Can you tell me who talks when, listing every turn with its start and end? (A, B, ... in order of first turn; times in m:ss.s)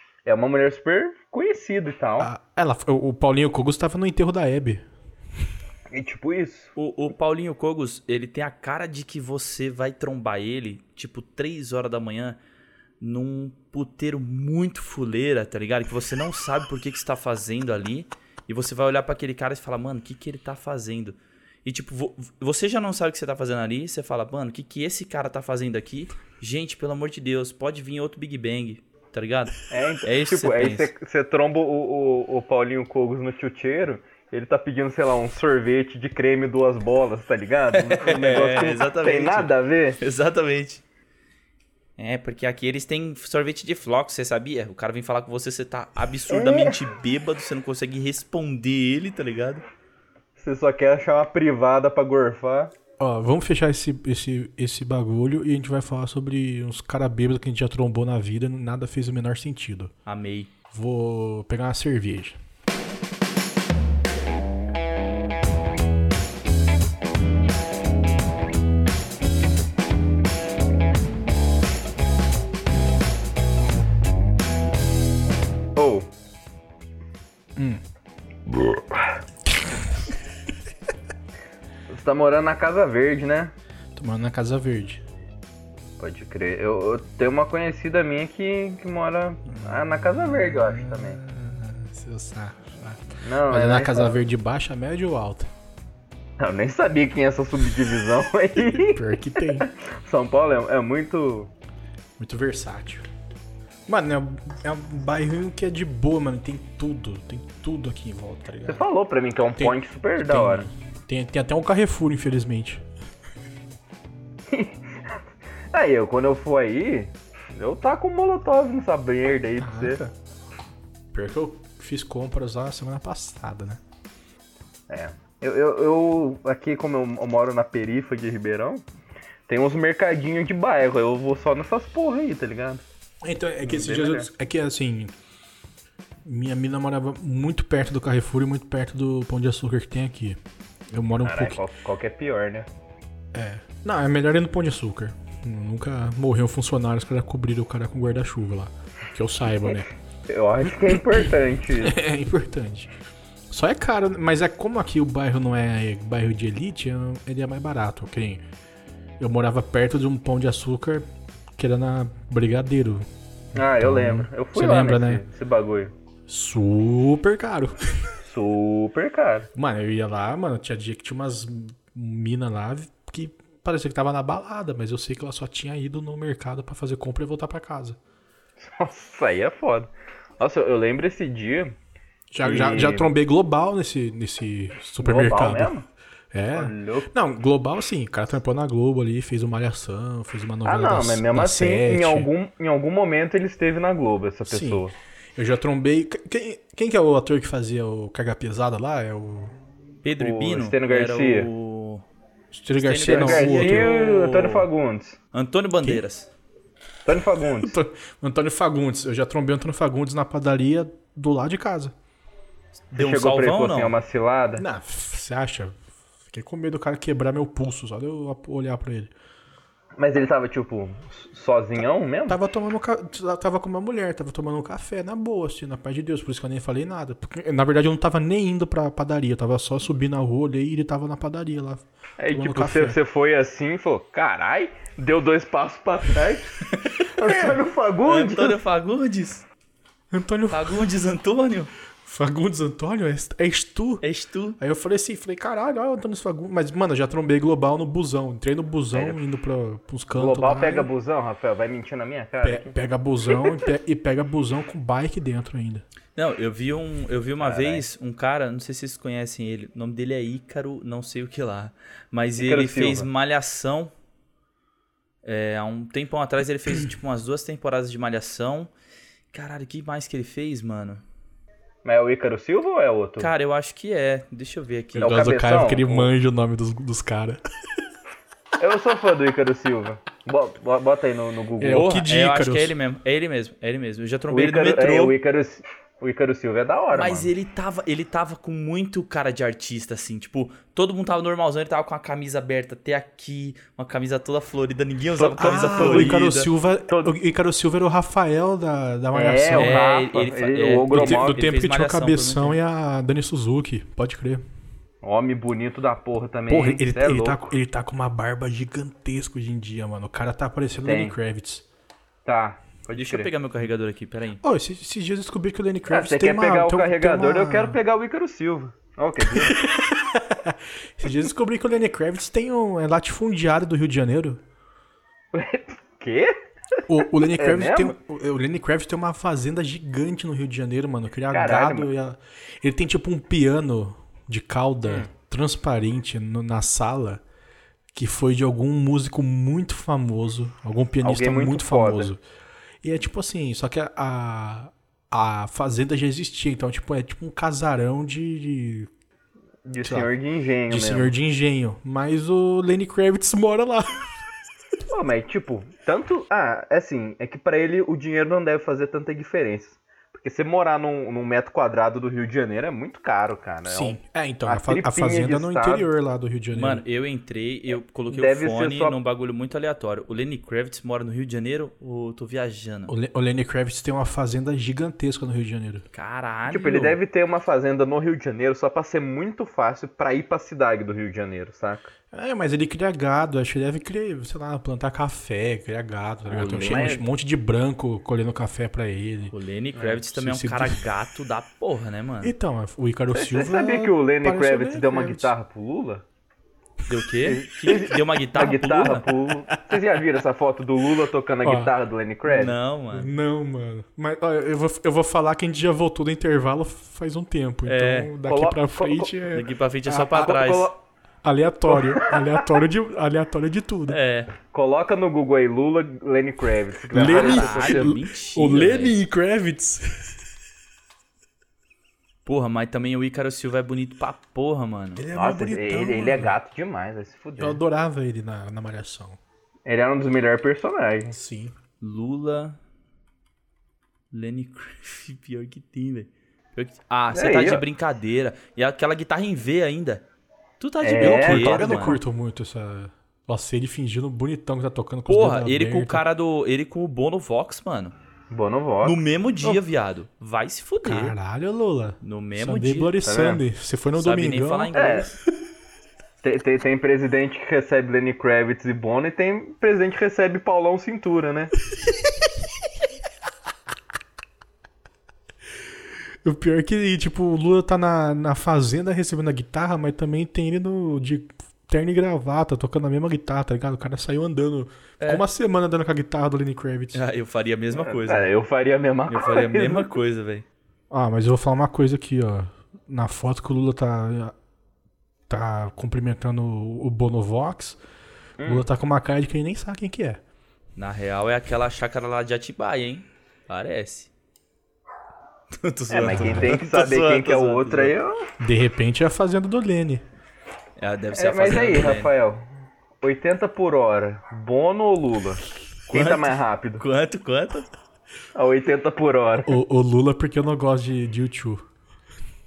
0:00.2-0:02.3 A
0:02.2-0:04.8 B
0:05.9-0:06.7 A
0:06.8-0:12.4 C
0:13.0-0:30.9 C
0:29.7-0:40.0 A
0:37.7-0:39.5 C
0:40.0-0:40.8 C
0:42.0-0:49.6 C
0:46.3-0:46.8 A
0:50.4-0:52.7 A
0:53.0-0:59.9 B
1:00.1-1:00.5 C
1:00.7-1:02.4 B
1:15.8-1:16.1 A
1:17.6-1:17.8 B
1:18.7-1:19.1 A
1:21.9-1:23.5 A
1:24.0-1:25.0 B
1:26.0-1:31.2 A
1:29.6-1:35.5 B
1:33.2-1:34.1 A
1:36.4-1:41.5 A
1:38.6-1:39.7 B
1:42.2-1:43.0 B
1:43.9-1:48.9 B
1:48.7-1:50.7 A
1:49.6-1:52.8 B
1:54.5-1:55.2 A
1:55.7-2:00.0 A
1:59.6-2:00.1 B
2:01.1-2:03.8 B
2:04.9-2:08.8 A
2:09.5-2:12.8 A
2:13.2-2:15.1 B
2:13.7-2:14.3 A
2:16.2-2:20.4 B
2:20.9-2:21.6 B
2:21.2-2:22.7 A
2:23.3-2:29.9 B
2:30.3-2:32.0 A
2:30.9-2:31.2 B
2:31.8-2:32.9 B
2:33.5-2:38.4 B
2:39.2-2:41.1 B
2:41.6-2:45.2 B
2:43.6-2:45.9 A
2:46.3-2:48.2 B
2:48.2-2:49.5 A
2:49.6-2:58.0 B
2:58.6-3:01.8 A
3:02.3-3:05.7 B
3:02.4-3:03.1 A
3:05.0-3:05.9 A
3:06.3-3:12.3 B
3:06.6-3:07.1 A
3:10.6-3:14.9 A
3:14.5-3:14.8 B
3:15.4-3:19.5 B
3:20.0-3:22.1 C
3:20.2-3:21.5 A
3:22.5-3:23.9 B
3:22.8-3:24.7 C
3:23.0-3:25.2 A
3:25.3-3:26.3 C
3:27.0-3:27.8 A
3:27.6-3:31.9 B
3:32.9-3:34.0 C
3:33.0-3:34.6 A
3:34.6-3:39.1 B
3:40.0-3:42.4 A
3:42.3-3:53.0 B
3:52.2-3:58.6 A
3:56.7-3:57.1 C
3:58.1-3:59.4 C
4:00.1-4:00.8 B
4:00.5-4:01.7 C
4:02.0-4:04.0 B
4:04.0-4:04.6 C
4:04.6-4:10.9 B
4:08.9-4:09.2 A
4:10.1-4:12.8 A
4:12.4-4:15.8 B
4:16.2-4:23.9 C
4:17.4-4:17.8 A
4:22.4-4:23.1 A
4:25.2-4:28.7 C
4:29.3-4:31.0 C
4:31.8-4:33.3 A
4:33.2-4:35.2 C
4:35.0-4:36.1 A
4:35.0-4:37.4 B
4:38.6-4:41.9 A
4:41.6-4:42.8 B
4:41.7-4:45.2 C
4:44.3-4:47.3 A
4:46.9-4:56.5 C
4:55.2-4:56.2 A
4:55.4-4:59.8 B
4:56.9-4:57.1 A
4:59.1-5:01.4 A
4:59.6-5:02.6 C
5:00.9-5:04.4 B
5:05.0-5:07.5 A
5:06.5-5:11.6 B
5:10.8-5:11.2 A
5:12.2-5:13.3 A
5:13.0-5:14.4 C
5:14.4-5:17.8 B
5:15.9-5:19.6 A
5:19.3-5:24.4 B
5:25.3-5:26.3 A
5:26.9-5:37.2 B
5:27.0-5:28.0 A
5:31.3-5:31.9 A
5:37.9-5:42.2 B
5:41.0-5:42.1 A
5:42.8-5:48.9 B
5:49.6-5:51.1 A
5:49.8-5:50.1 B
5:50.7-5:54.1 B
5:54.9-6:05.9 A
6:03.7-6:06.8 B
6:06.5-6:12.9 C
6:08.1-6:09.0 A
6:12.9-6:15.9 B
6:15.9-6:17.0 C
6:16.5-6:21.9 A
6:22.1-6:29.3 B
6:26.3-6:27.0 A
6:29.3-6:32.3 C
6:29.8-6:30.0 A
6:30.1-6:30.8 B
6:32.2-6:35.3 B
6:33.2-6:36.0 A
6:36.9-6:39.1 C
6:37.2-6:42.6 A
6:41.4-6:41.7 B
6:42.3-6:43.1 C
6:42.9-6:50.4 B
6:47.7-6:48.1 C
6:48.2-6:49.1 A
6:49.3-6:50.7 C
6:50.2-6:50.8 A
6:51.2-6:54.0 B
6:51.7-6:52.5 A
6:53.9-6:54.3 C
6:54.5-6:58.0 A
6:56.9-7:00.2 B
6:57.0-6:59.0 C
7:02.2-7:05.0 C
7:05.0-7:06.4 B
7:05.1-7:07.6 A
7:07.4-7:09.2 B
7:09.7-7:11.1 A
7:11.0-7:11.6 B
7:11.8-7:12.6 C
7:14.1-7:20.0 C
7:17.1-7:17.6 A
7:20.6-7:22.0 C
7:20.8-7:22.0 A
7:21.0-7:26.0 B
7:25.1-7:28.0 C
7:28.3-7:29.0 A
7:28.8-7:31.2 C
7:30.8-7:34.7 B
7:32.0-7:33.0 C
7:33.0-7:33.4 A
7:34.0-7:35.2 C
7:34.7-7:35.1 A
7:36.2-7:41.5 A
7:46.2-7:57.0 B
7:55.0-7:55.2 C
7:56.9-7:58.3 C
7:57.7-7:59.9 A
7:59.1-8:00.5 C
8:00.9-8:04.4 B
8:05.3-8:07.8 B
8:08.4-8:08.7 A
8:08.4-8:10.2 B
8:10.8-8:14.1 C
8:15.6-8:18.0 C
8:15.9-8:18.3 A
8:16.1-8:16.6 B
8:18.4-8:20.0 B
8:20.8-8:22.1 C
8:21.2-8:22.4 A
8:23.0-8:26.8 A
8:25.9-8:27.7 C
8:28.4-8:29.6 A
8:29.5-8:31.6 B